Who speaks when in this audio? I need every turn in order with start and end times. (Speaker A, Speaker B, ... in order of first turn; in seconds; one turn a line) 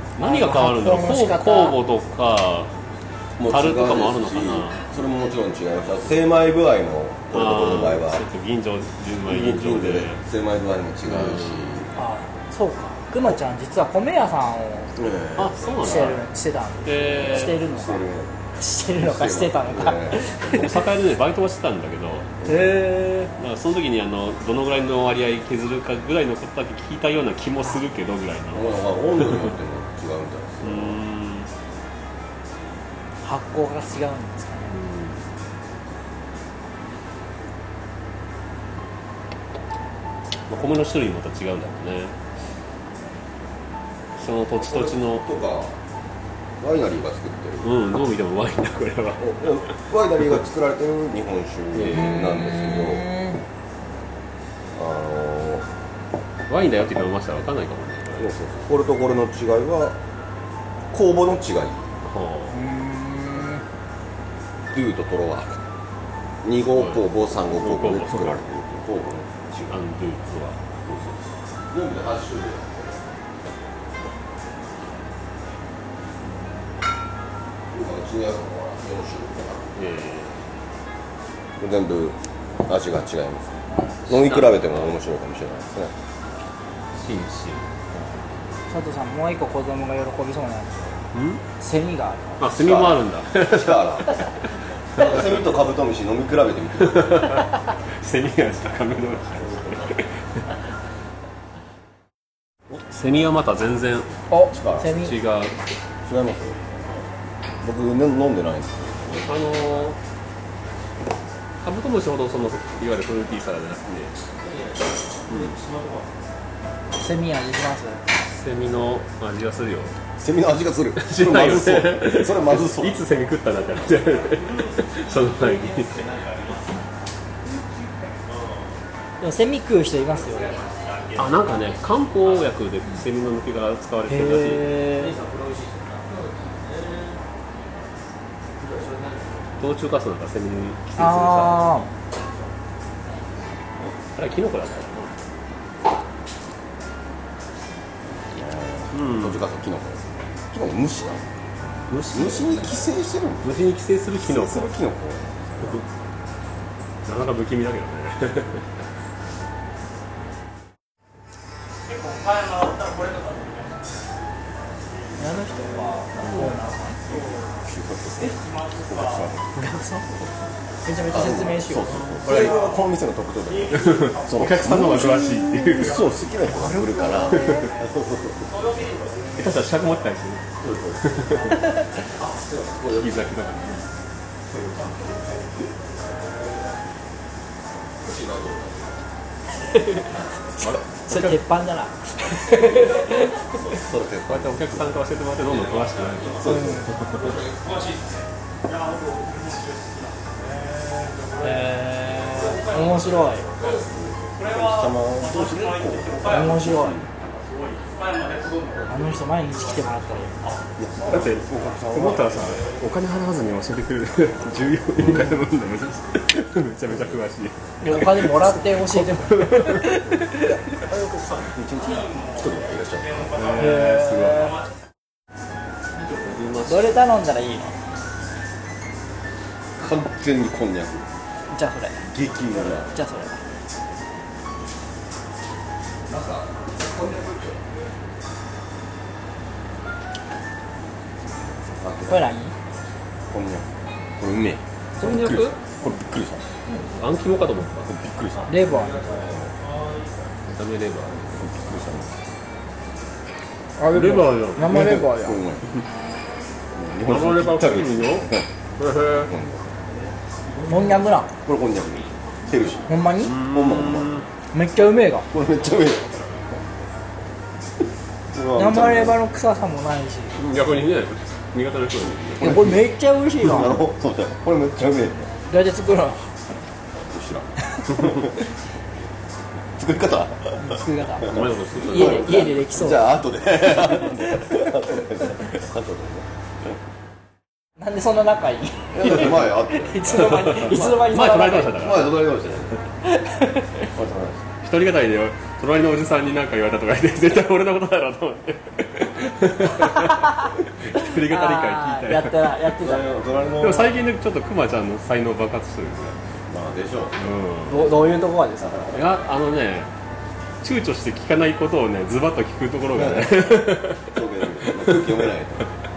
Speaker A: 0.2-2.7
Speaker B: 0.2-1.8
Speaker C: 3.4-8.2
Speaker A: 3.4-4.8
Speaker A: 7.3-10.2
Speaker C: 9.2-11.9
Speaker A: 11.1-11.7
Speaker B: 11.9-14.9
Speaker C: 14.9-16.1
Speaker A: 15.3-16.2
Speaker B: 15.8-20.8
Speaker A: 16.8-17.6
Speaker C: 17.2-18.4
Speaker C: 18.9-20.8
Speaker A: 20.5-22.3
Speaker C: 22.4-22.7
Speaker B: 22.4-23.3
Speaker A: 23.4-29.5
Speaker C: 28.5-31.0
Speaker A: 30.6-31.5
Speaker B: 33.2-34.7
Speaker A: 34.7-35.2
Speaker A: 40.5-42.1
Speaker A: 44.2-45.3
Speaker C: 44.6-45.8
Speaker C: 46.6-47.7
Speaker A: 47.6-49.6
Speaker C: 49.2-53.1
Speaker A: 51.7-52.5
Speaker B: 51.9-53.4
Speaker C: 54.7-55.7
Speaker A: 56.5-58.3
Speaker C: 58.2-60.0
Speaker C: 60.9-61.9
Speaker A: 62.0-62.6
Speaker B: 62.5-63.6
Speaker C: 64.7-65.6
Speaker C: 66.4-69.8
Speaker A: 66.7-68.4
Speaker A: 69.7-71.2
Speaker C: 71.7-73.0
Speaker C: 77.7-79.8
Speaker A: 79.7-80.4
Speaker C: 81.6-85.9
Speaker A: 84.1-85.0
Speaker A: 86.9-88.0
Speaker B: 88.7-91.0
Speaker A: 91.1-91.4
Speaker B: 91.6-92.4
Speaker A: 92.4-94.2
Speaker C: 92.5-94.3
Speaker C: 94.9-97.4
Speaker A: 96.8-100.1
Speaker C: 99.4-100.0
Speaker A: 102.9-104.1
Speaker B: 104.3-105.1
Speaker C: 104.5-104.9
Speaker A: 104.8-105.6
Speaker C: 106.0-106.6
Speaker C: 107.6-109.3
Speaker A: 109.1-110.0
Speaker A: 111.6-114.1
Speaker A: 115.3-115.5
Speaker B: 116.9-118.0
Speaker A: 118.2-119.9
Speaker C: 120.2-123.0
Speaker A: 121.0-126.3
Speaker B: 129.2-130.7
Speaker A: 131.1-134.9
Speaker B: 134.1-135.2
Speaker A: 139.6-141.8
Speaker B: 141.0-141.9
Speaker A: 144.1-145.1
Speaker C: 148.2-151.3
Speaker A: 148.9-149.4
Speaker A: 151.9-152.8
Speaker C: 152.1-153.6
Speaker A: 153.4-154.7
Speaker C: 154.2-155.8
Speaker A: 157.0-158.7
Speaker B: 165.2-167.0
Speaker C: 167.5-169.5
Speaker B: 169.6-170.1
Speaker C: 170.1-170.5
Speaker B: 170.8-172.1
Speaker C: 171.1-178.9
Speaker A: 172.2-172.6
Speaker A: 173.7-176.1
Speaker B: 176.5-177.7
Speaker A: 177.4-177.7
Speaker A: 179.3-180.4
Speaker C: 180.6-181.5
Speaker A: 181.0-181.5
Speaker C: 182.2-183.3
Speaker A: 182.9-183.8
Speaker C: 184.5-185.5
Speaker C: 188.0-189.0
Speaker B: 189.6-193.6
Speaker A: 190.6-191.4
Speaker C: 192.7-194.9
Speaker A: 194.2-197.4
Speaker C: 196.3-196.9
Speaker B: 196.4-196.9
Speaker B: 201.4-203.5
Speaker C: 203.6-207.1
Speaker B: 206.2-207.0
Speaker B: 208.9-210.3
Speaker C: 210.8-212.5
Speaker A: 211.0-219.9
Speaker B: 217.8-220.5
Speaker C: 220.7-223.6
Speaker A: 223.3-224.5
Speaker B: 223.5-224.6
Speaker A: 226.1-226.9
Speaker B: 226.7-227.8
Speaker C: 229.8-231.1
Speaker B: 231.5-232.1
Speaker C: 232.1-232.9
Speaker B: 232.9-233.4
Speaker C: 236.1-237.6
Speaker C: 241.8-242.3
Speaker B: 242.1-242.5
Speaker C: 243.3-246.4
Speaker A: 245.0-245.6
Speaker B: 245.0-245.4
Speaker A: 246.8-247.9
Speaker C: 247.8-249.5
Speaker B: 248.5-249.0
Speaker A: 250.4-251.4
Speaker C: 251.3-252.1
Speaker B: 253.8-255.4
Speaker A: 253.9-255.0
Speaker C: 254.6-255.7
Speaker C: 256.7-258.5
Speaker A: 257.1-259.3
Speaker C: 259.1-259.8
Speaker B: 260.7-261.3
Speaker C: 261.4-264.2
Speaker B: 262.9-263.4
Speaker A: 263.2-264.3
Speaker B: 264.5-265.3
Speaker C: 265.3-266.6
Speaker C: 268.3-269.2
Speaker B: 268.6-270.4
Speaker A: 270.4-272.6
Speaker B: 272.4-273.8
Speaker C: 272.4-275.3
Speaker B: 275.5-276.2
Speaker C: 277.0-278.3
Speaker C: 279.8-286.3
Speaker B: 280.6-283.1
Speaker A: 281.2-282.5
Speaker B: 287.8-291.8
Speaker C: 288.9-291.0
Speaker A: 290.1-292.2
Speaker C: 291.7-292.8
Speaker B: 293.0-293.8
Speaker C: 293.9-294.5
Speaker A: 294.6-302.5
Speaker B: 299.8-303.1
Speaker C: 302.8-304.0
Speaker A: 303.6-306.2
Speaker C: 306.5-307.3
Speaker A: 307.2-307.9
Speaker B: 307.7-308.9
Speaker C: 308.6-309.0
Speaker A: 308.9-309.9
Speaker A: 310.6-314.1
Speaker C: 312.9-315.7
Speaker A: 314.7-315.1